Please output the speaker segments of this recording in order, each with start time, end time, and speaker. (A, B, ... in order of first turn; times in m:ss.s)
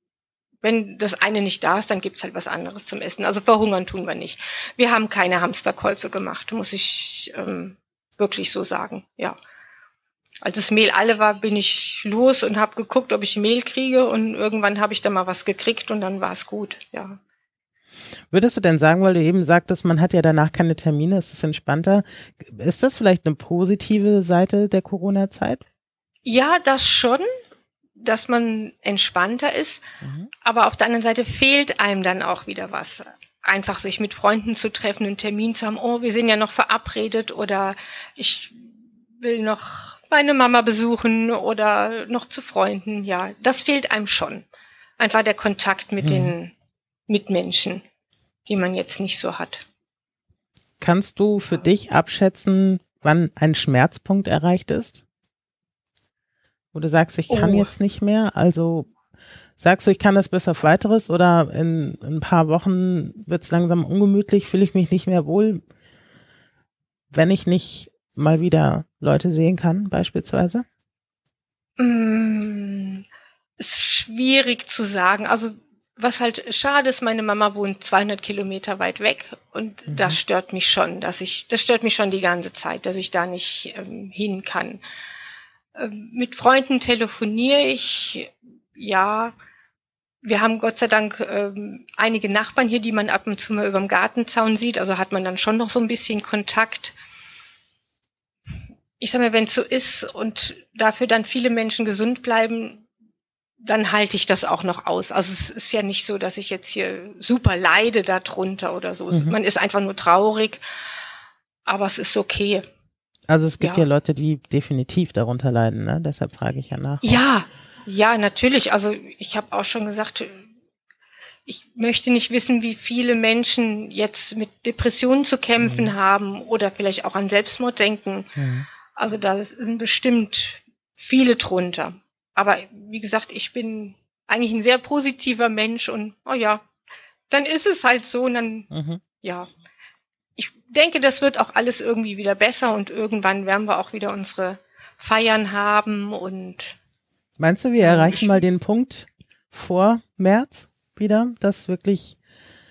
0:00.6-0:09.4 A
0:10.4-0:17.2 A
0:18.3-0:25.6 B
0:26.2-0:27.3 A
0:28.0-0:29.8 A
0:30.0-0:30.3 B
0:30.4-0:44.4 A
0:45.0-0:46.5 A
0:46.0-0:46.3 B
0:47.1-0:47.8 A
0:48.4-0:49.6 A
0:50.8-0:55.0 B
0:56.7-0:58.9 B
0:57.3-0:57.7 A
0:59.6-1:05.6 B
1:07.1-1:10.6 B
1:11.8-1:13.0 A
1:13.6-1:24.8 A
1:19.9-1:20.2 B
1:25.7-1:29.3 A
1:30.2-1:36.9 A
1:39.0-1:42.8 A
1:43.6-1:50.6 A
1:51.6-1:52.6 A
1:53.3-1:57.2 B
1:53.6-1:53.8 A
1:57.0-2:00.4 A
2:01.4-2:08.3 A
2:05.6-2:05.9 B
2:08.4-2:08.6 B
2:09.0-2:16.6 A
2:17.3-2:18.7 A
2:18.7-2:19.0 B
2:19.2-2:19.5 A
2:20.4-2:26.8 A
2:27.4-2:32.2 B
2:27.8-2:28.4 A